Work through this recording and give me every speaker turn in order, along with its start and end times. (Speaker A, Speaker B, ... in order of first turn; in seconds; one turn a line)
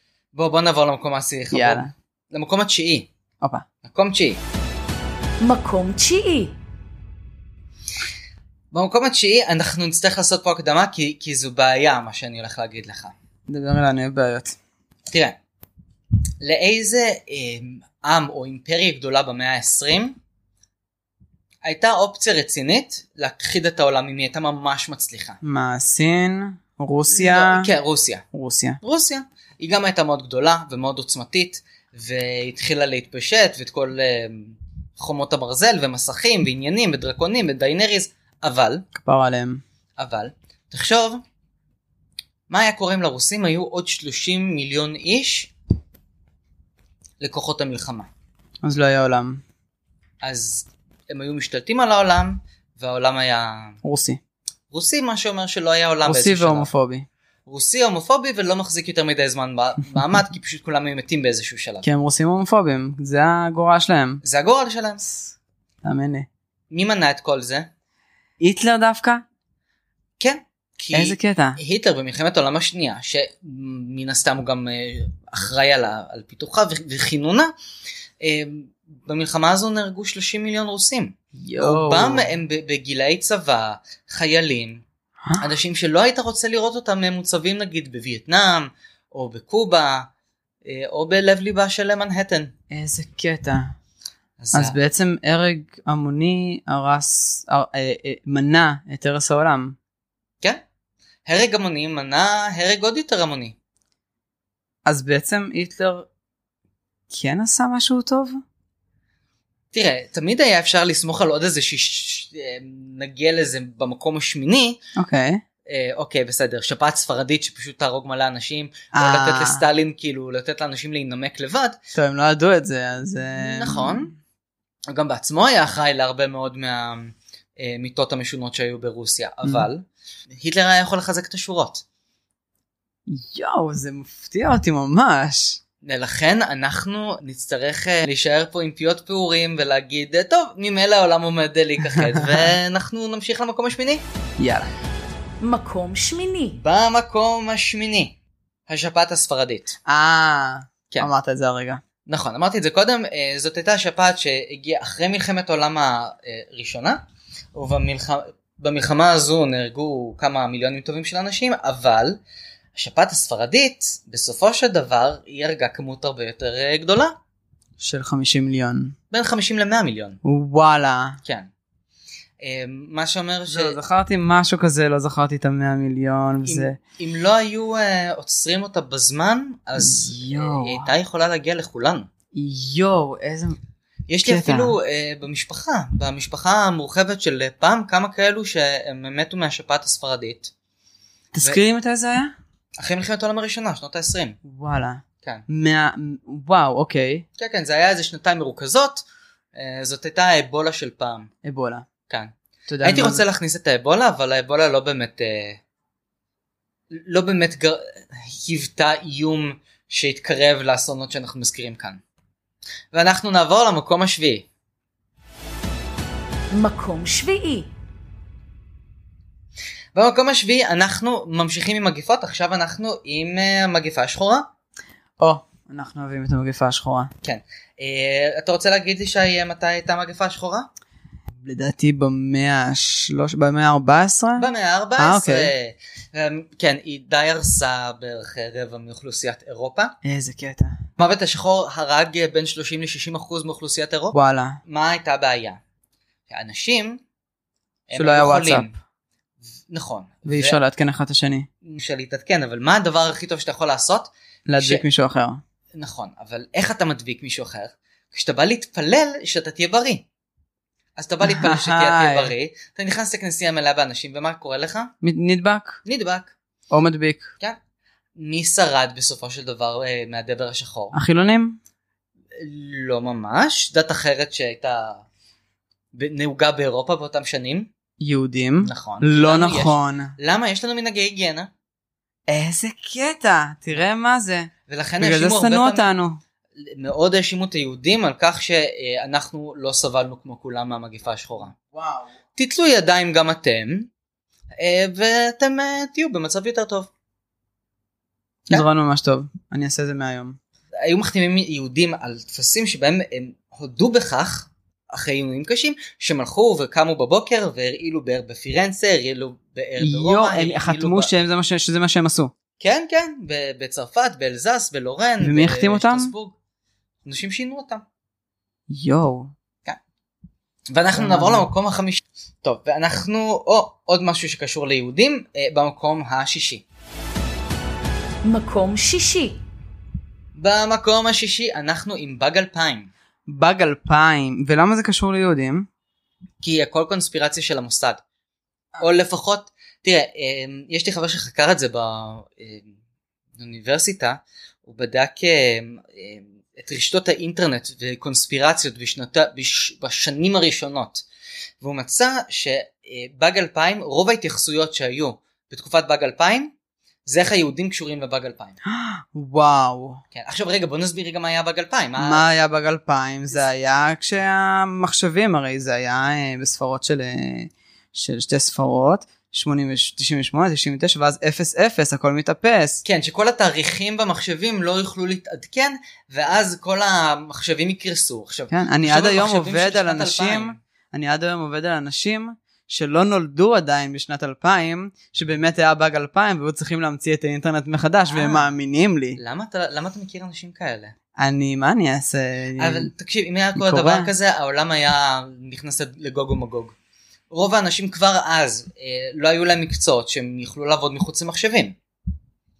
Speaker A: 0.3-3.1
Speaker B: 1.5-1.9
Speaker A: 3.8-4.4
Speaker C: 5.4-6.5
Speaker A: 8.7-13.1
Speaker B: 13.5-14.6
Speaker A: 15.1-15.4
Speaker A: 16.4-20.2
Speaker A: 21.6-25.4
Speaker B: 25.4-27.7
Speaker A: 27.1-28.3
Speaker B: 28.3-28.8
Speaker A: 28.8-38.9
Speaker B: 39.0-39.6
Speaker A: 40.0-41.2
Speaker A: 42.5-45.5
Speaker A: 47.2-48.1
Speaker B: 48.6-49.4
Speaker A: 50.2-53.8
Speaker B: 53.8-54.2
Speaker A: 54.7-56.7
Speaker B: 56.0-57.1
Speaker A: 57.5-61.9
Speaker B: 61.8-64.2
Speaker A: 64.2-65.1
Speaker B: 65.8-66.3
Speaker A: 66.7-67.7
Speaker B: 68.4-69.2
Speaker A: 70.2-77.5
Speaker B: 70.9-71.6
Speaker A: 78.2-84.8
Speaker B: 81.4-82.3
Speaker A: 85.4-90.1
Speaker A: 90.6-92.5
Speaker B: 92.7-93.7
Speaker A: 94.4-94.8
Speaker B: 94.5-99.8
Speaker A: 101.2-103.5
Speaker B: 104.9-106.1
Speaker B: 107.1-108.4
Speaker A: 109.7-114.8
Speaker B: 115.0-115.4
Speaker A: 115.7-121.8
Speaker B: 118.9-119.6
Speaker B: 121.9-124.1
Speaker A: 123.4-124.1
Speaker A: 124.9-131.8
Speaker B: 133.1-135.6
Speaker A: 135.8-144.0
Speaker B: 141.9-142.5
Speaker B: 144.4-144.7
Speaker C: 145.4-146.6
Speaker A: 146.5-148.2
Speaker A: 148.7-149.8
Speaker B: 149.9-151.8
Speaker A: 152.1-157.0
Speaker A: 157.5-162.2
Speaker A: 162.8-167.2
Speaker B: 167.8-168.9
Speaker A: 169.1-170.2
Speaker B: 170.2-171.2
Speaker A: 171.2-171.5
Speaker A: 172.4-173.8
Speaker B: 173.5-176.8
Speaker A: 176.4-182.1
Speaker B: 179.8-180.9
Speaker B: 182.3-183.6
Speaker A: 184.1-190.5
Speaker B: 184.2-184.8
Speaker B: 191.3-192.3
Speaker A: 192.8-194.4
Speaker B: 194.4-197.2
Speaker A: 197.4-201.3
Speaker B: 201.4-201.9
Speaker A: 202.1-205.6
Speaker B: 202.7-203.2
Speaker A: 206.9-212.0
Speaker A: 212.9-214.5
Speaker C: 216.5-217.7
Speaker A: 219.9-224.5
Speaker B: 225.2-227.1
Speaker A: 227.2-230.7
Speaker B: 231.4-235.5
Speaker A: 234.4-239.9
Speaker B: 240.0-240.8
Speaker A: 241.0-245.6
Speaker B: 244.1-244.6
Speaker A: 246.3-247.0
Speaker A: 247.9-248.7
Speaker B: 247.9-248.7
Speaker A: 249.7-250.6
Speaker B: 250.3-251.5
Speaker A: 251.6-254.8
Speaker B: 254.5-255.4
Speaker A: 255.7-260.0
Speaker A: 261.0-264.9
Speaker B: 261.2-262.3
Speaker B: 265.0-265.8
Speaker A: 265.9-266.3
Speaker B: 266.7-267.3
Speaker A: 268.2-270.9
Speaker B: 270.9-271.6
Speaker A: 272.3-275.1
Speaker A: 275.9-277.7
Speaker B: 278.0-280.1
Speaker A: 278.6-281.5
Speaker B: 282.3-286.2
Speaker A: 284.7-285.9
Speaker A: 286.6-291.5
Speaker B: 291.7-292.1
Speaker A: 292.4-293.9
Speaker A: 294.6-296.9
Speaker B: 298.5-300.4
Speaker A: 300.8-311.1
Speaker B: 309.8-312.3
Speaker A: 312.6-316.4
Speaker B: 315.2-316.1
Speaker A: 317.1-317.9
Speaker B: 318.7-319.3
Speaker A: 320.7-326.6
Speaker B: 321.0-321.5
Speaker C: 328.2-329.4
Speaker A: 330.4-332.9
Speaker B: 333.3-335.7
Speaker A: 336.4-338.0
Speaker A: 338.8-342.7
Speaker A: 343.4-351.1
Speaker A: 351.6-356.5
Speaker A: 357.1-358.6
Speaker B: 358.7-360.0
Speaker A: 360.1-362.3
Speaker B: 362.0-372.8
Speaker A: 372.9-380.6
Speaker B: 378.5-389.2
Speaker A: 388.1-388.5
Speaker A: 389.2-390.9
Speaker B: 391.2-392.9
Speaker A: 392.6-396.8
Speaker B: 393.6-394.1
Speaker A: 397.3-401.8